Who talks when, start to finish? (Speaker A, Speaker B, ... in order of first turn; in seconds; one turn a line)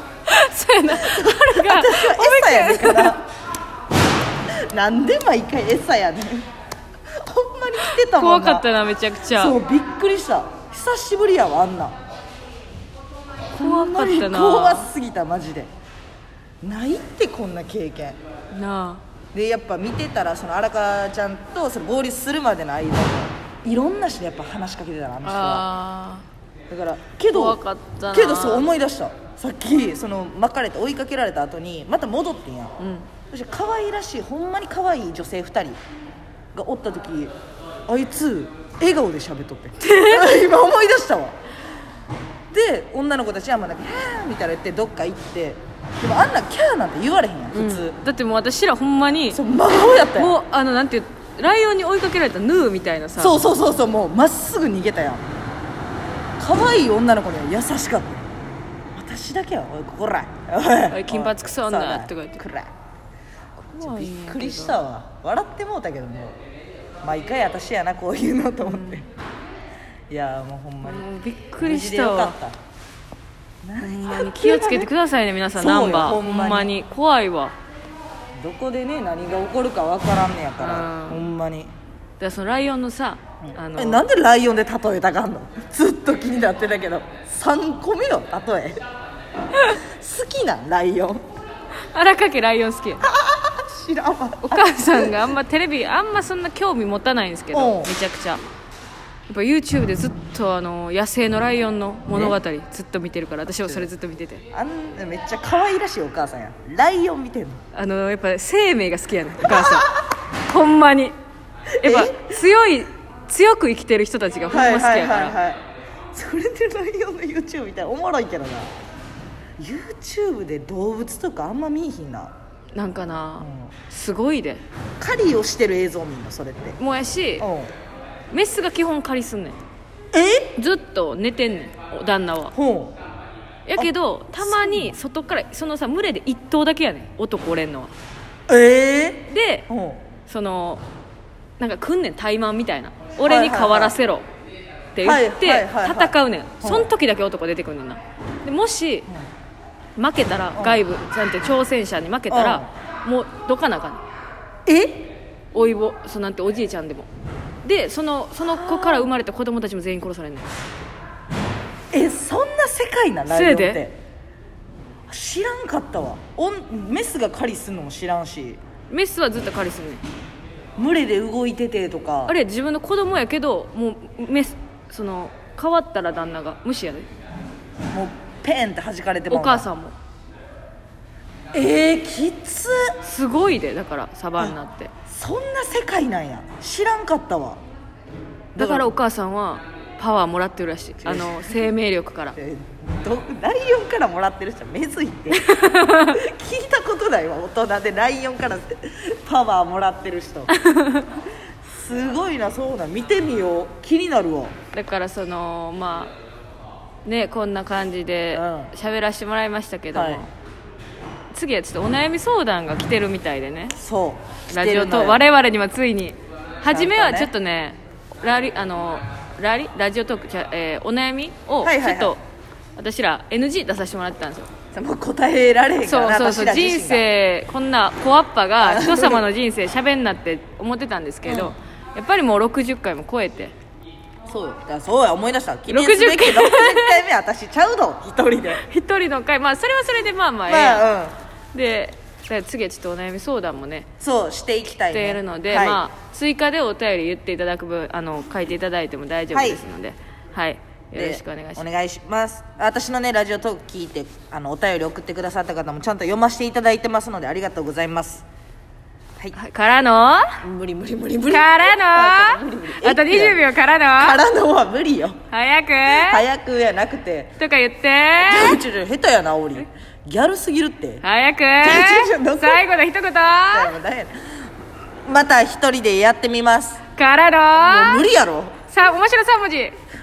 Speaker A: 0.3-3.2
Speaker B: 0.9-3.2
Speaker B: 4.7-6.5
Speaker B: 7.2-8.7
Speaker A: 7.9-9.6
Speaker B: 9.3-11.9
Speaker B: 13.5-15.7
Speaker A: 13.6-14.9
Speaker B: 16.6-18.2
Speaker A: 18.5-19.0
Speaker B: 19.3-25.6
Speaker A: 25.2-26.2
Speaker B: 26.7-27.6
Speaker A: 27.3-28.7
Speaker B: 28.1-32.7
Speaker A: 32.8-33.1
Speaker B: 33.3-35.8
Speaker B: 36.5-37.3
Speaker B: 37.9-41.4
Speaker A: 39.8-40.2
Speaker B: 42.5-48.0
Speaker A: 47.5-49.4
Speaker B: 49.3-50.3
Speaker A: 50.1-53.4
Speaker B: 53.2-55.2
Speaker B: 56.4-58.3
Speaker B: 58.9-62.7
Speaker A: 60.9-62.4
Speaker A: 63.6-64.8
Speaker B: 63.8-66.3
Speaker B: 67.0-69.1
Speaker A: 68.6-69.0
Speaker B: 70.1-71.0
Speaker A: 70.8-72.4
Speaker B: 71.6-72.6
Speaker B: 73.6-74.9
Speaker A: 73.8-77.5
Speaker B: 75.6-76.7
Speaker B: 78.4-81.7
Speaker A: 80.6-81.3
Speaker A: 82.2-84.0
Speaker B: 83.4-88.8
Speaker B: 89.6-91.2
Speaker A: 91.9-93.0
Speaker B: 93.0-95.3
Speaker A: 94.4-98.4
Speaker B: 97.5-97.9
Speaker A: 99.3-104.4
Speaker B: 102.1-102.4
Speaker B: 103.6-103.9
Speaker B: 104.5-107.6
Speaker A: 107.7-111.1
Speaker B: 109.4-109.9
Speaker A: 111.8-115.4
Speaker B: 111.8-112.3
Speaker B: 114.5-115.6
Speaker B: 116.1-118.7
Speaker B: 119.6-122.3
Speaker A: 122.8-124.6
Speaker B: 123.4-123.7
Speaker B: 125.0-126.8
Speaker A: 126.8-127.5
Speaker B: 127.4-127.7
Speaker A: 128.3-129.6
Speaker B: 130.1-130.5
Speaker A: 130.6-132.5
Speaker B: 132.5-132.9
Speaker A: 133.7-137.9
Speaker B: 133.8-135.0
Speaker B: 138.5-140.0
Speaker A: 139.3-139.6
Speaker A: 140.3-140.8
Speaker A: 141.6-144.2
Speaker B: 143.2-143.9
Speaker A: 144.9-149.1
Speaker B: 145.0-146.9
Speaker A: 149.9-154.0
Speaker B: 150.5-150.9
Speaker B: 152.3-152.7
Speaker B: 154.7-155.1
Speaker A: 155.5-157.1
Speaker A: 157.6-160.6
Speaker B: 158.5-159.1
Speaker B: 161.9-164.0
Speaker A: 163.3-163.8
Speaker B: 165.1-168.6
Speaker A: 168.9-170.0
Speaker B: 170.8-172.4
Speaker A: 172.3-177.1
Speaker B: 177.9-179.7
Speaker A: 179.3-179.9
Speaker B: 181.5-183.0
Speaker A: 183.0-184.9
Speaker B: 185.1-187.6
Speaker B: 188.6-188.9
Speaker A: 188.6-192.4
Speaker B: 191.0-191.7
Speaker B: 192.3-200.5
Speaker A: 195.3-196.2
Speaker A: 200.5-201.1
Speaker B: 201.7-204.5
Speaker A: 204.7-206.1
Speaker A: 207.0-210.3
Speaker B: 208.3-208.7
Speaker B: 209.9-210.2
Speaker A: 211.3-213.8
Speaker B: 213.8-215.2
Speaker A: 214.5-222.2
Speaker B: 216.7-217.3
Speaker B: 221.6-222.2
Speaker A: 222.8-224.5
Speaker B: 224.7-227.1
Speaker A: 225.8-233.5
Speaker B: 228.6-229.2
Speaker B: 231.2-231.5
Speaker B: 234.3-238.6
Speaker A: 235.7-237.0
Speaker A: 238.5-240.9
Speaker B: 240.5-241.1
Speaker A: 241.5-243.9
Speaker B: 244.0-245.8
Speaker A: 244.9-251.7
Speaker B: 249.3-249.6
Speaker B: 250.9-258.2
Speaker A: 259.3-260.4
Speaker B: 260.4-263.4
Speaker A: 261.3-264.2
Speaker B: 263.9-265.2
Speaker A: 265.3-266.2
Speaker B: 265.9-267.3
Speaker A: 267.4-268.6
Speaker B: 268.2-271.0
Speaker A: 271.0-273.8
Speaker B: 271.6-272.6
Speaker B: 273.5-274.4
Speaker B: 275.0-276.8
Speaker A: 277.0-278.0
Speaker B: 277.5-278.5
Speaker A: 278.7-279.8